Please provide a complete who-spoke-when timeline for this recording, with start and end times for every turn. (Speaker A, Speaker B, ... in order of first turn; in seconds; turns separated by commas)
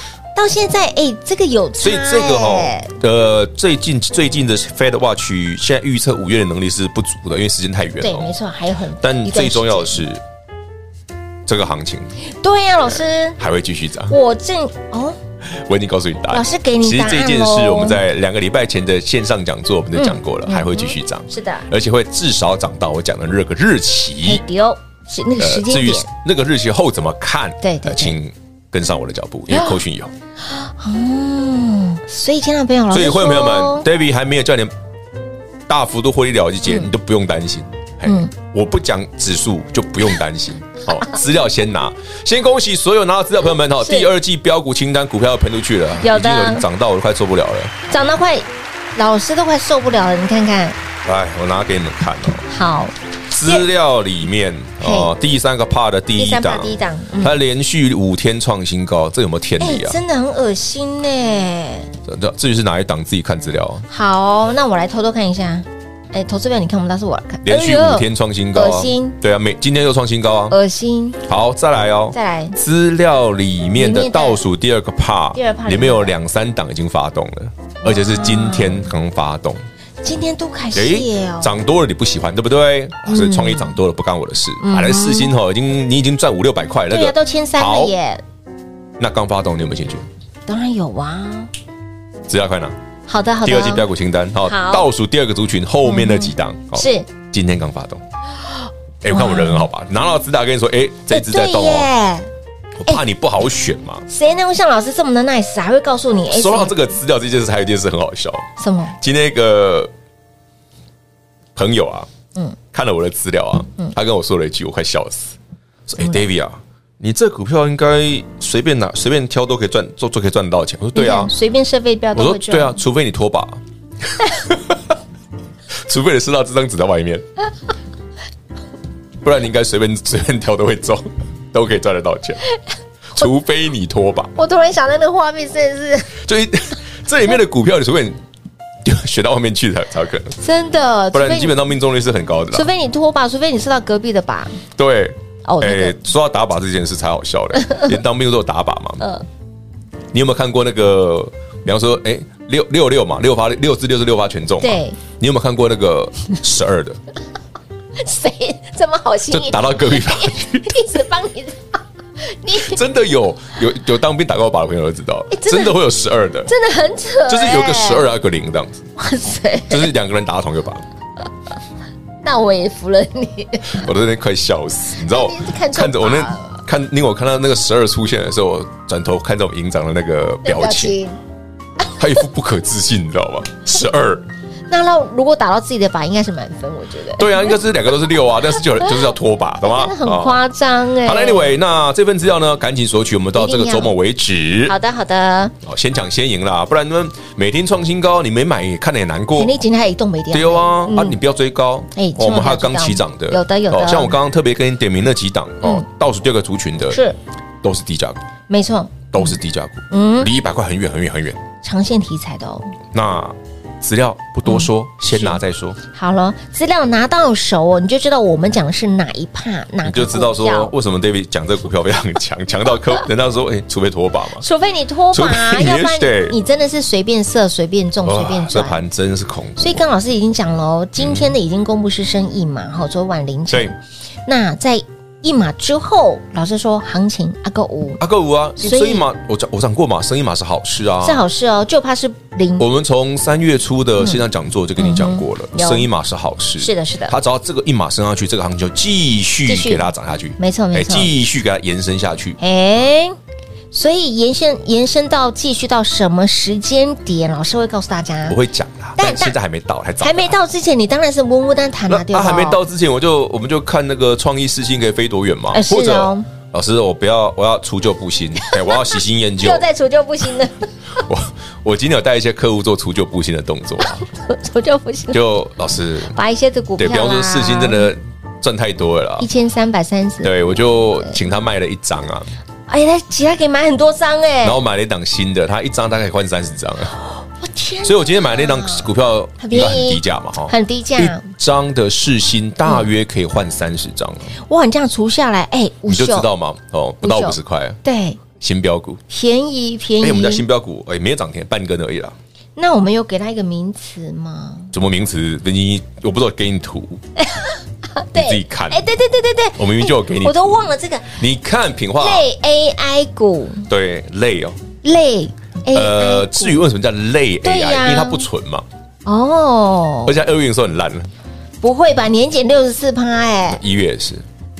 Speaker A: 0.3-2.9, Speaker B: 1.8-8.3, Speaker A: 8.0-10.0, Speaker B: 9.0-10.2, Speaker B: 11.5-12.1, Speaker A: 12.4-13.4, Speaker B: 12.9-14.2, Speaker A: 14.1-15.2, Speaker B: 15.5-24.4, Speaker A: 16.3-18.0, Speaker A: 20.0-21.7, Speaker A: 24.2-26.1, Speaker B: 25.4-30.1, Speaker A: 27.6-28.2, Speaker A: 29.5-29.8, Speaker A: 30.5-33.9, Speaker B: 32.9-34.7, Speaker B: 35.7-47.8, Speaker A: 38.0-38.3, Speaker A: 43.8-44.1, Speaker A: 46.0-46.6, Speaker A: 47.9-50.8, Speaker B: 51.0-52.5, Speaker A: 52.5-53.7, Speaker B: 53.3-60.0, Speaker A: 54.8-55.1, Speaker A: 56.2-57.4, Speaker A: 59.6-61.9, Speaker B: 62.1-63.9, Speaker A: 63.9-69.2, Speaker B: 67.5-70.6, Speaker A: 70.5-71.2, Speaker B: 71.2-79.6, Speaker A: 72.1-72.6, Speaker A: 73.8-74.4, Speaker A: 75.3-76.2, Speaker A: 77.8-78.9, Speaker A: 80.0-81.5, Speaker B: 80.8-87.9, Speaker A: 83.1-83.8, Speaker A: 84.6-85.3, Speaker A: 86.9-88.2, Speaker B: 89.0-90.1, Speaker A: 90.5-91.5, Speaker B: 92.3-92.8, Speaker A: 93.1-93.9, Speaker B: 93.5-98.0, Speaker A: 94.4-94.9, Speaker A: 95.8-97.1, Speaker B: 99.0-101.9, Speaker A: 99.1-99.7, Speaker A: 101.1-102.3, Speaker B: 102.8-104.0, Speaker A: 104.1-106.9, Speaker B: 106.3-109.9, Speaker A: 108.6-109.0, Speaker B: 111.5-112.1, Speaker B: 112.7-115.4, Speaker B: 115.9-121.3, Speaker A: 121.0-122.8, Speaker B: 122.1-123.6, Speaker B: 124.2-124.9, Speaker B: 125.8-127.3, Speaker B: 129.2-132.4, Speaker B: 133.1-134.3, Speaker A: 134.4-136.2, Speaker B: 136.2-138.2, Speaker B: 138.8-140.4, Speaker A: 140.4-141.6, Speaker B: 141.1-142.7, Speaker A: 142.5-144.6, Speaker B: 144.8-149.1, Speaker A: 145.4-146.0, Speaker A: 149.0-149.2, Speaker B: 150.1-157.0, Speaker A: 154.6-155.0, Speaker A: 158.0-162.8, Speaker B: 159.3-160.9, Speaker B: 162.6-166.5, Speaker A: 165.3-165.8, Speaker A: 166.5-168.1, Speaker B: 167.3-168.9, Speaker A: 169.0-169.9, Speaker B: 169.7-170.8, Speaker A: 172.2-173.9, Speaker B: 173.7-180.9, Speaker A: 175.0-176.6, Speaker A: 180.4-181.2, Speaker B: 181.9-184.3, Speaker A: 184.7-187.6, Speaker B: 187.2-190.4, Speaker A: 189.6-191.6, Speaker B: 191.0-194.8, Speaker A: 193.4-193.9, Speaker A: 194.7-195.5, Speaker B: 195.6-199.5, Speaker A: 199.3-201.2, Speaker B: 200.3-207.0, Speaker A: 201.9-204.2, Speaker A: 206.9-207.2, Speaker B: 207.6-208.2, Speaker A: 208.5-209.3, Speaker B: 209.1-211.4, Speaker A: 209.9-210.3, Speaker A: 211.6-212.8, Speaker B: 212.9-215.8, Speaker A: 214.5-215.4, Speaker A: 215.9-220.7, Speaker B: 219.8-224.4, Speaker A: 224.4-228.8, Speaker B: 225.1-226.4, Speaker B: 228.0-229.8, Speaker A: 229.6-238.0, Speaker B: 231.0-231.3, Speaker B: 238.0-241.2, Speaker A: 238.6-239.1, Speaker A: 241.0-242.7, Speaker B: 242.6-252.4, Speaker A: 244.8-245.9, Speaker A: 246.6-247.2, Speaker A: 249.5-251.1, Speaker A: 252.4-253.2, Speaker A: 253.7-258.4, Speaker B: 258.3-260.4, Speaker A: 259.0-259.4, Speaker A: 260.0-262.6, Speaker B: 261.9-269.7, Speaker A: 265.5-266.3, Speaker A: 268.4-270.7, Speaker B: 271.0-274.0, Speaker A: 274.1-275.2, Speaker B: 275.1-276.2, Speaker A: 276.1-277.9, Speaker B: 276.8-279.3, Speaker A: 279.2-280.4, Speaker B: 280.2-282.3, Speaker A: 282.7-284.6, Speaker B: 284.4-286.9, Speaker A: 287.1-291.2, Speaker B: 287.8-294.4, Speaker A: 294.5-296.3, Speaker B: 295.9-297.8, Speaker A: 297.0-298.2, Speaker B: 298.4-299.0, Speaker A: 299.1-300.4, Speaker B: 300.0-302.2, Speaker A: 302.6-304.7, Speaker B: 304.7-307.0, Speaker A: 307.2-311.2, Speaker B: 308.1-308.9, Speaker B: 309.6-310.5, Speaker B: 311.1-312.3, Speaker A: 312.0-313.7, Speaker B: 313.7-314.6, Speaker A: 314.8-316.6, Speaker B: 315.7-318.7, Speaker A: 317.4-318.3, Speaker A: 319.1-320.2, Speaker B: 320.1-321.1, Speaker A: 321.6-323.6, Speaker B: 323.5-324.2